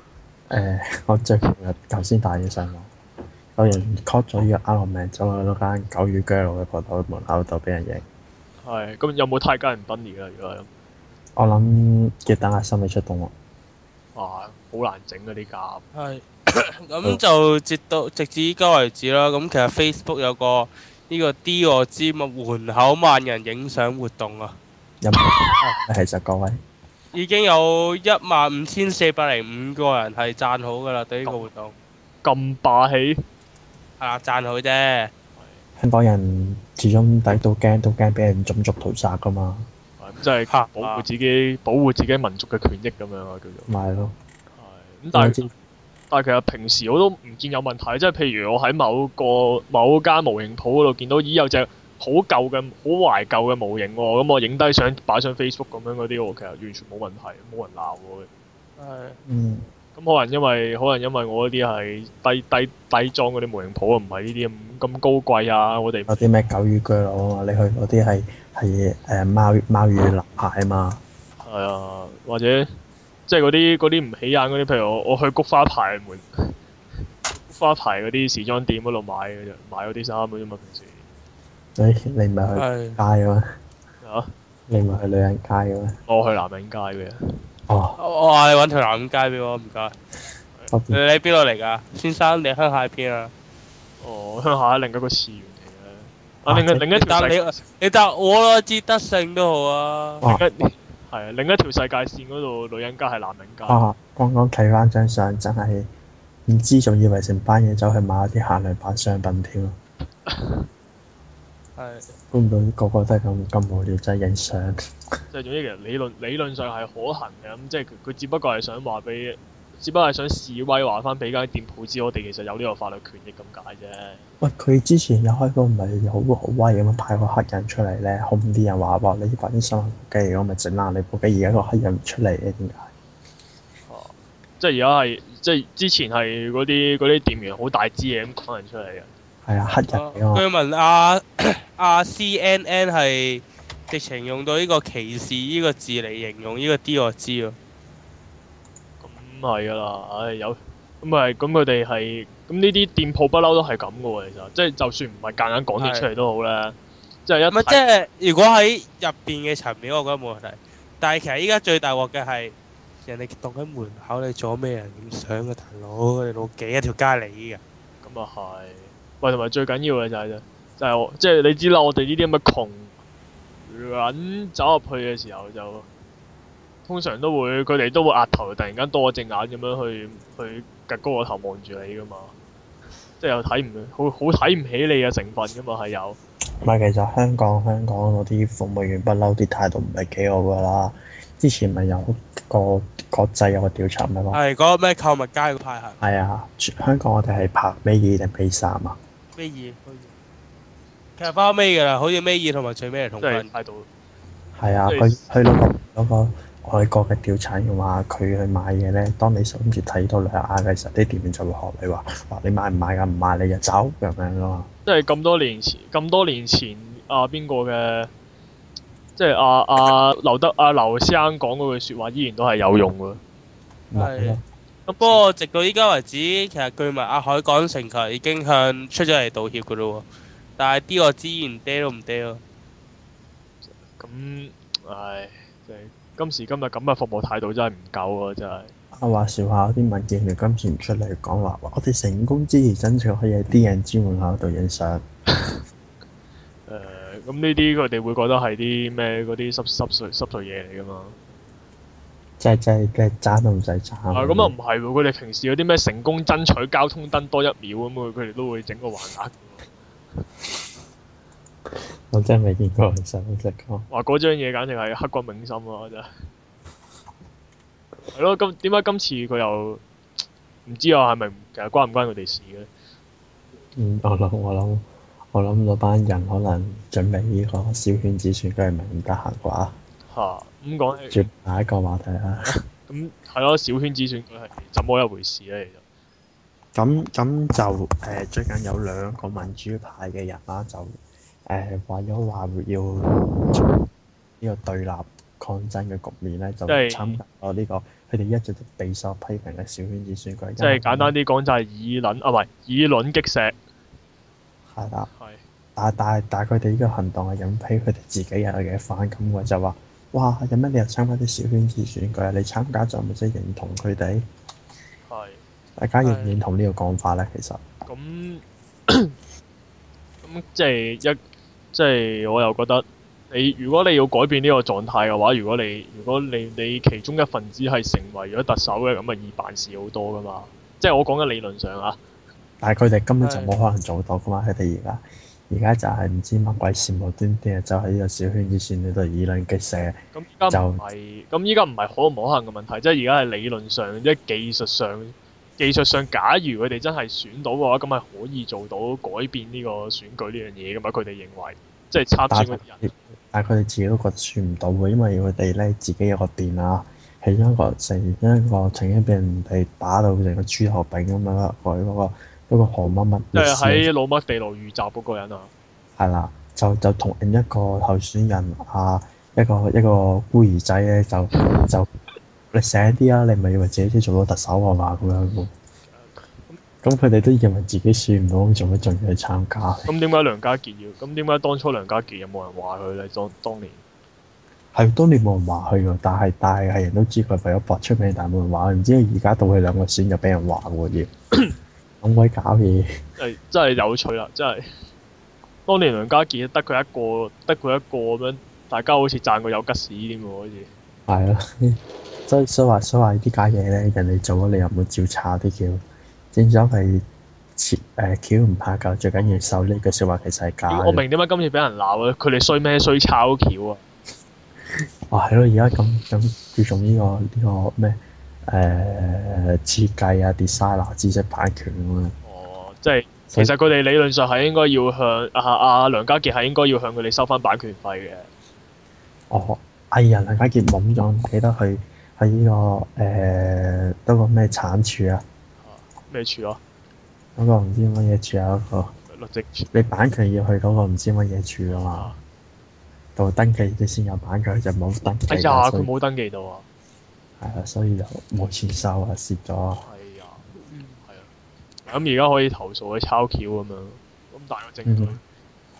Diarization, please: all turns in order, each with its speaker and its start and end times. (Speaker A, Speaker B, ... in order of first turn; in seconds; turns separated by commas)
Speaker A: 0.5-2.9, Speaker A: 3.5-8.0, Speaker B: 8.6-10.7, Speaker A: 11.4-13.3, Speaker B: 14.2-15.8, Speaker C: 15.9-24.6, Speaker A: 25.0-25.3, Speaker A: 25.8-26.6, Speaker C: 27.1-31.7, Speaker B: 32.2-33.2, Speaker C: 34.0-35.1, Speaker B: 35.4-35.6, Speaker A: 35.8-39.7, Speaker B: 40.0-43.7, Speaker C: 40.5-41.0, Speaker A: 43.7-44.1, Speaker B: 44.5-45.4, Speaker A: 45.1-45.5, Speaker B: 46.1-58.3, Speaker C: 58.8-59.2, Speaker A: 59.2-59.6, Speaker B: 60.0-66.2, Speaker A: 66.1-71.0, Speaker B: 71.4-72.7, Speaker B: 73.3-76.5, Speaker B: 77.4-81.0, Speaker A: 81.8-83.5, Speaker C: 82.5-83.0, Speaker B: 84.0-84.3, Speaker A: 84.7-86.0, Speaker B: 86.1-87.2, Speaker A: 87.7-88.0, Speaker C: 88.0-89.9, Speaker A: 90.7-91.0, Speaker C: 90.9-93.3, Speaker B: 94.0-97.6, Speaker A: 96.5-96.8, Speaker C: 96.9-100.2, Speaker B: 100.2-103.8, Speaker A: 103.7-105.9, Speaker A: 106.5-109.8, Speaker B: 110.3-110.6, Speaker C: 111.8-112.0, Speaker A: 112.3-114.8, Speaker B: 115.3-124.2, Speaker A: 124.4-132.9, Speaker B: 133.9-139.1, Speaker A: 139.4-140.4, Speaker C: 139.9-147.6, Speaker B: 149.0-157.8, Speaker C: 155.8-156.1, Speaker C: 157.5-162.5, Speaker C: 163.1-167.6, Speaker B: 168.0-172.9, Speaker B: 173.6-175.9, Speaker B: 176.8-182.3, Speaker B: 183.2-186.2, Speaker A: 186.6-194.4, Speaker C: 194.3-196.0, Speaker A: 196.0-199.0, Speaker C: 199.4-200.1, Speaker C: 201.2-203.5, Speaker B: 203.2-203.9, Speaker A: 204.5-214.7, Speaker B: 204.9-205.2, Speaker B: 214.8-218.1, Speaker B: 219.2-223.2, Speaker A: 223.9-224.4, Speaker C: 223.9-224.4, Speaker B: 224.9-225.2, Speaker C: 225.0-230.0, Speaker C: 230.6-232.4, Speaker B: 233.6-238.7, Speaker A: 238.9-245.0, Speaker B: 245.3-245.6, Speaker B: 246.7-251.2, Speaker A: 252.4-254.5, Speaker B: 254.1-259.6, Speaker A: 262.1-263.9, Speaker B: 263.9-266.1, Speaker B: 268.1-269.8, Speaker B: 270.6-272.7, Speaker A: 273.8-279.8, Speaker B: 280.1-281.1, Speaker A: 281.1-282.5, Speaker B: 282.4-285.8, Speaker A: 286.7-293.6, Speaker A: 294.4-301.1, Speaker B: 296.7-297.2, Speaker B: 300.6-303.6, Speaker A: 304.7-305.1, Speaker B: 305.1-305.4, Speaker A: 305.8-314.2, Speaker B: 315.1-315.4, Speaker A: 315.8-317.6, Speaker C: 316.0-316.3, Speaker B: 317.9-319.1, Speaker B: 320.2-321.2, Speaker B: 321.7-332.0, Speaker A: 332.6-340.0, Speaker C: 333.2-333.5, Speaker B: 340.1-352.9, Speaker A: 340.5-340.8, Speaker A: 352.3-363.9, Speaker B: 363.3-365.5, Speaker A: 366.0-371.9, Speaker A: 372.5-375.5, Speaker B: 375.9-376.6, Speaker A: 376.8-379.9, Speaker B: 379.9-383.8, Speaker A: 384.7-391.1, Speaker A: 392.0-393.0, Speaker B: 393.2-394.7, Speaker B: 395.7-400.7, Speaker A: 401.1-405.8, Speaker A: 406.3-407.0, Speaker A: 407.6-411.0, Speaker B: 410.7-413.8, Speaker A: 415.1-422.1, Speaker B: 422.2-428.3, Speaker A: 429.3-435.2, Speaker B: 435.6-436.6, Speaker A: 437.4-438.9, Speaker B: 439.1-439.8, Speaker A: 439.7-442.1, Speaker B: 441.7-442.2, Speaker A: 443.1-445.9, Speaker B: 445.3-446.6, Speaker A: 447.4-449.8, Speaker B: 449.9-451.3, Speaker B: 451.9-455.2, Speaker A: 454.9-455.2